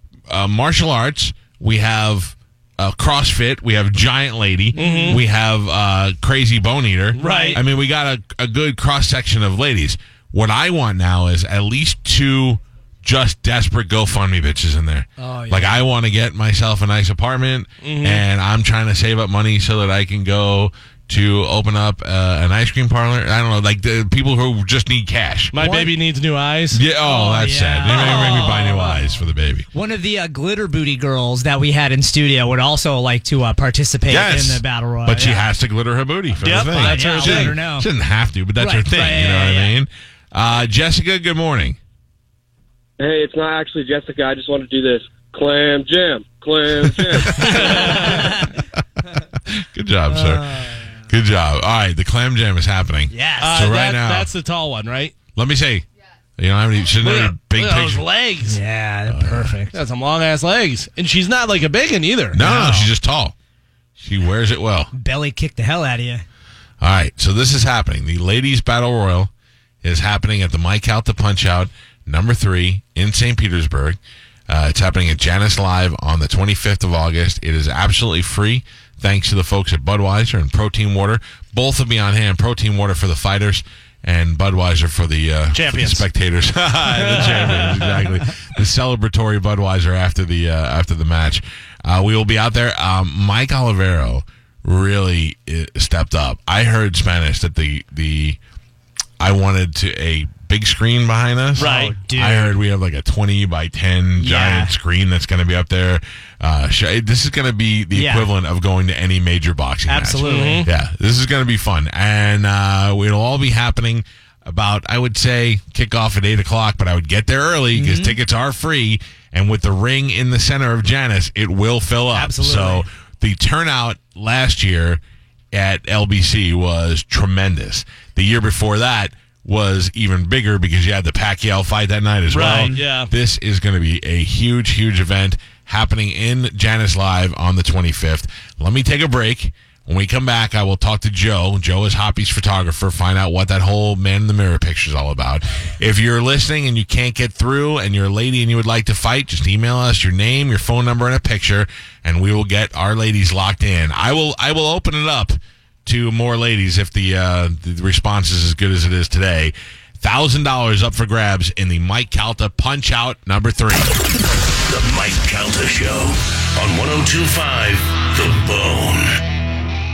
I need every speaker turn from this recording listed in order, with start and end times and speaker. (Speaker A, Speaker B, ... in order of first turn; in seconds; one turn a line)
Speaker A: 0.3-25.6
Speaker B: 4.8-5.2
Speaker C: 4.8-5.2
Speaker C: 7.1-7.6
Speaker B: 7.2-7.6
Speaker B: 15.2-15.8
Speaker C: 17.8-18.2
Speaker C: 25.5-26.8
Speaker B: 25.5-26.0
Speaker A: 26.7-29.7
Speaker B: 26.9-35.5
Speaker A: 34.1-41.8
Speaker C: 36.4-37.6
Speaker B: 36.8-37.9
Speaker B: 38.5-39.8
Speaker D: 43.0-48.1
Speaker A: 46.8-47.2
Speaker C: 47.5-48.3
Speaker B: 47.6-48.5
Speaker A: 49.2-54.3
Speaker B: 50.1-50.9
Speaker B: 53.1-53.6
Speaker C: 53.4-55.2
Speaker A: 55.3-55.9
Speaker A: 56.4-58.1
Speaker C: 57.0-58.6
Speaker B: 58.4-59.8
Speaker A: 59.1-59.6
Speaker C: 59.7-62.5
Speaker A: 62.3-63.3
Speaker B: 62.4-62.9
Speaker A: 64.0-64.9
Speaker B: 64.9-66.2
Speaker A: 66.8-69.3
Speaker A: 69.8-98.4
Speaker C: 85.5-86.1
Speaker C: 86.9-88.1
Speaker A: 99.2-125.0
Speaker C: 101.6-102.0
Speaker B: 101.6-102.6
Speaker B: 104.1-104.8
Speaker B: 107.9-108.3
Speaker B: 109.8-110.7
Speaker C: 110.2-110.7
Speaker B: 117.7-118.2
Speaker B: 122.1-122.9
Speaker A: 125.5-163.9
Speaker C: 132.3-133.1
Speaker B: 132.6-133.0
Speaker E: 164.7-169.2